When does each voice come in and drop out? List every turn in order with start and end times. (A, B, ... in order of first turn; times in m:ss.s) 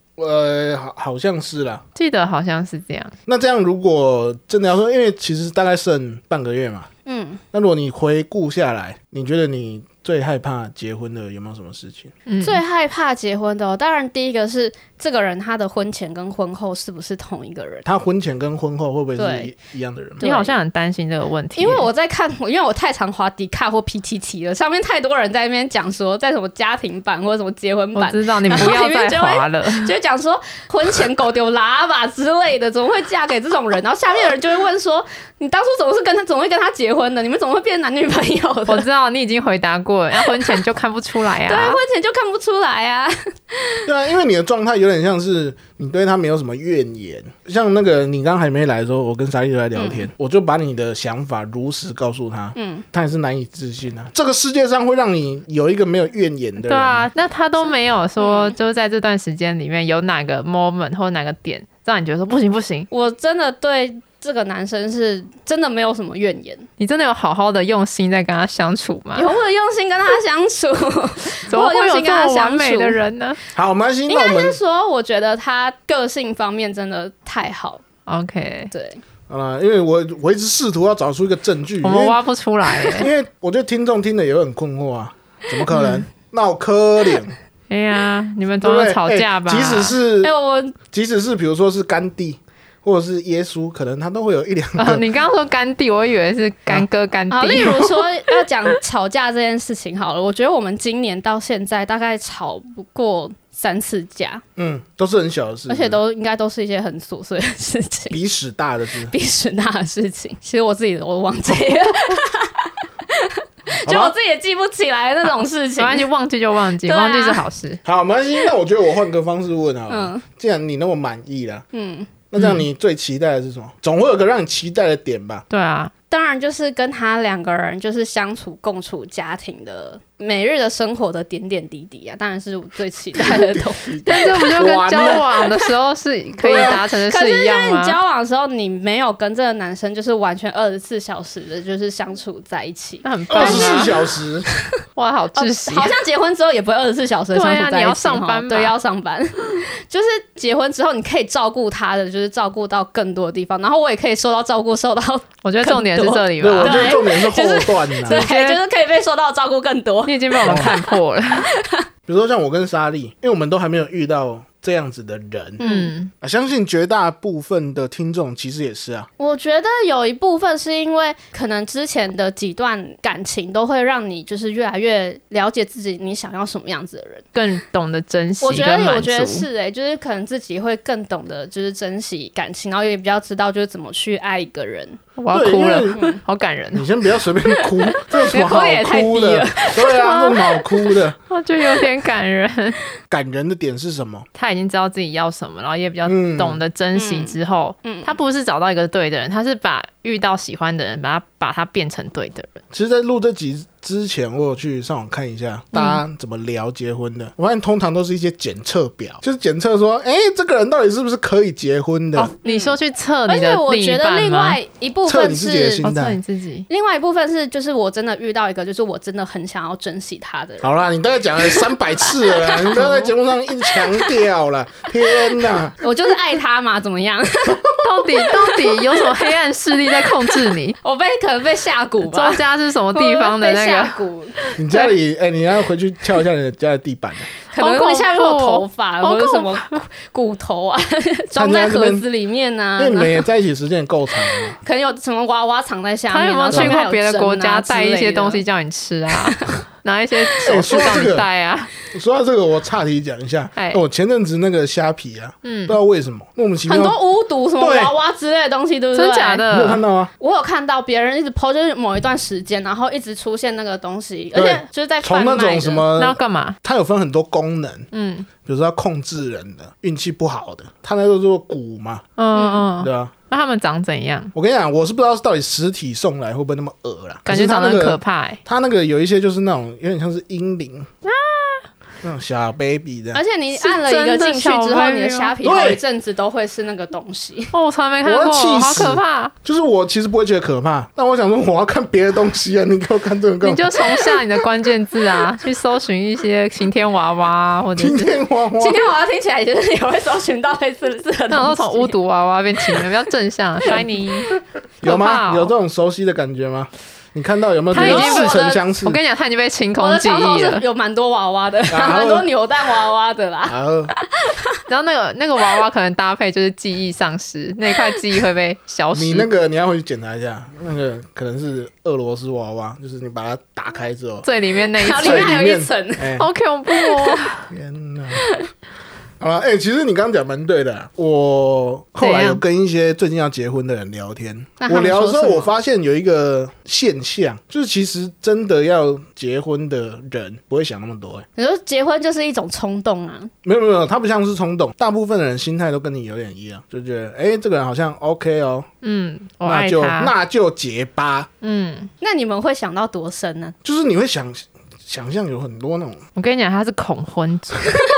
0:00.2-0:01.8 A
0:01.9-0:03.1 B
0:03.3-0:06.9 A
0:07.0-0:07.4 C
0:07.5-0:12.1 A
0:12.3-0:12.6 B
0:12.4-0:17.8 C
0:17.8-0:20.3 A
0:19.2-0:19.5 C
0:20.2-0:20.5 C
0:20.2-0:21.9 B
0:21.6-0:38.8 C
0:27.9-0:29.9 B
0:38.7-0:41.8 B
0:40.2-0:40.6 C
0:41.4-0:43.9 C
0:43.8-0:57.1 A
0:49.8-0:50.1 C
0:52.6-0:52.8 C
0:56.6-1:02.9 B
0:58.2-0:58.6 C
1:02.9-1:06.7 C
1:06.8-1:09.3 B
1:09.2-1:13.0 C
1:11.5-1:13.4 B
1:13.5-1:14.6 A
1:14.1-1:17.8 C
1:18.1-1:18.7 B
1:18.7-1:19.0 C
1:19.3-1:22.2 A
1:21.8-1:23.1 B
1:22.8-1:27.3 A
1:25.7-1:26.0 B
1:27.7-1:30.0 B
1:28.6-1:30.3 A
1:30.2-1:30.8 C
1:30.8-1:35.0 A
1:34.8-1:38.0 B
1:37.3-1:44.4 C
1:44.6-1:46.0 A
1:45.7-1:48.2 C
1:48.1-1:49.1 A
1:49.1-1:56.1 C
1:53.8-1:54.1 A
1:55.8-1:57.8 B
1:56.8-1:57.4 C
1:57.8-2:01.6 A
1:59.9-2:00.2 C
2:01.7-2:02.1 C
2:02.3-2:05.4 A
2:02.4-2:02.6 B
2:05.5-2:05.9 B
2:06.1-2:15.5 C
2:13.2-2:15.3 A
2:14.0-2:18.0 B
2:16.4-2:24.0 C
2:16.4-2:16.8 A
2:23.0-2:23.9 B
2:23.3-2:24.4 A
2:25.0-2:25.9 B
2:25.4-2:40.9 C
2:27.3-2:28.7 B
2:35.4-2:37.0 B
2:36.4-2:38.2 A
2:38.0-2:38.6 B
2:40.0-2:41.5 B
2:40.4-2:40.8 A
2:41.5-2:41.8 C
2:42.1-2:45.6 A
2:45.6-2:45.9 C
2:45.6-2:46.1 B
2:46.2-2:49.1 A
2:49.2-2:57.2 C
2:57.3-2:59.4 B
2:58.4-3:05.0 C
3:05.2-3:06.8 B
3:05.3-3:06.0 A
3:05.9-3:06.2 C
3:06.7-3:11.2 A
3:08.2-3:09.8 C
3:09.8-3:10.6 B
3:11.3-3:12.8 B
3:13.1-3:14.2 A
3:14.3-3:22.6 B
3:16.0-3:16.6 A
3:16.9-3:18.1 C
3:22.7-3:32.3 A
3:25.7-3:26.0 B
3:32.2-3:34.6 B
3:32.4-3:32.8 C
3:33.3-3:35.8 C
3:35.0-3:36.2 A
3:35.8-3:36.7 B
3:36.7-3:40.8 C
3:40.6-3:45.8 A
3:41.4-3:43.0 C
3:42.8-3:43.0 B
3:43.7-3:44.1 C
3:45.8-3:49.3 C
3:47.8-3:50.8 B
3:50.2-3:54.4 C
3:52.0-3:54.9 B
3:54.6-3:57.3 A
3:57.5-4:03.2 C
3:57.6-3:59.8 B
4:01.3-4:02.0 A
4:02.8-4:04.6 A
4:04.6-4:08.4 C
4:06.1-4:11.7 B
4:06.5-4:06.8 A
4:09.2-4:09.5 C
4:10.4-4:11.3 A
4:11.9-4:17.0 A
4:13.6-4:13.8 B
4:15.4-4:15.8 B
4:16.7-4:19.4 C
4:17.6-4:17.9 A
4:18.9-4:19.8 B
4:19.5-4:20.1 A
4:20.2-4:25.9 C
4:24.3-4:27.9 A
4:26.0-4:26.6 B
4:27.9-4:28.3 B
4:28.4-4:32.0 A
4:32.2-4:34.3 B
4:32.3-4:32.7 C
4:32.8-4:33.1 A
4:34.3-4:40.9 A
4:37.2-4:38.4 B
4:41.0-4:41.6 B
4:42.0-4:43.2 A
4:43.1-4:47.5 C
4:43.5-4:45.4 B
4:45.4-4:45.8 A
4:47.5-4:49.3 B
4:48.0-4:54.3 A
4:53.4-4:58.2 B
4:57.8-4:58.8 A
4:58.6-5:01.9 C
5:01.3-5:05.5 B
5:04.8-5:09.0 A
5:07.7-5:08.6 C
5:07.7-5:10.6 B
5:09.8-5:14.4 C
5:11.7-5:12.3 A
5:13.5-5:13.9 A
5:14.7-5:19.3 B
5:18.9-5:24.3 A
5:24.2-5:25.4 B
5:24.8-5:26.1 C
5:25.0-5:26.3 A
5:26.2-5:27.5 B
5:26.8-5:27.2 C
5:27.5-5:28.2 A
5:28.1-5:28.5 C
5:29.2-5:41.2 A
5:32.0-5:32.4 B
5:34.6-5:35.5 C
5:41.4-5:43.3 C
5:43.4-5:48.7 A
5:48.8-5:50.1 B
5:49.4-5:51.3 A
5:51.4-5:51.9 B
5:52.0-5:53.5 C
5:53.6-5:56.0 A
5:56.2-5:57.8 B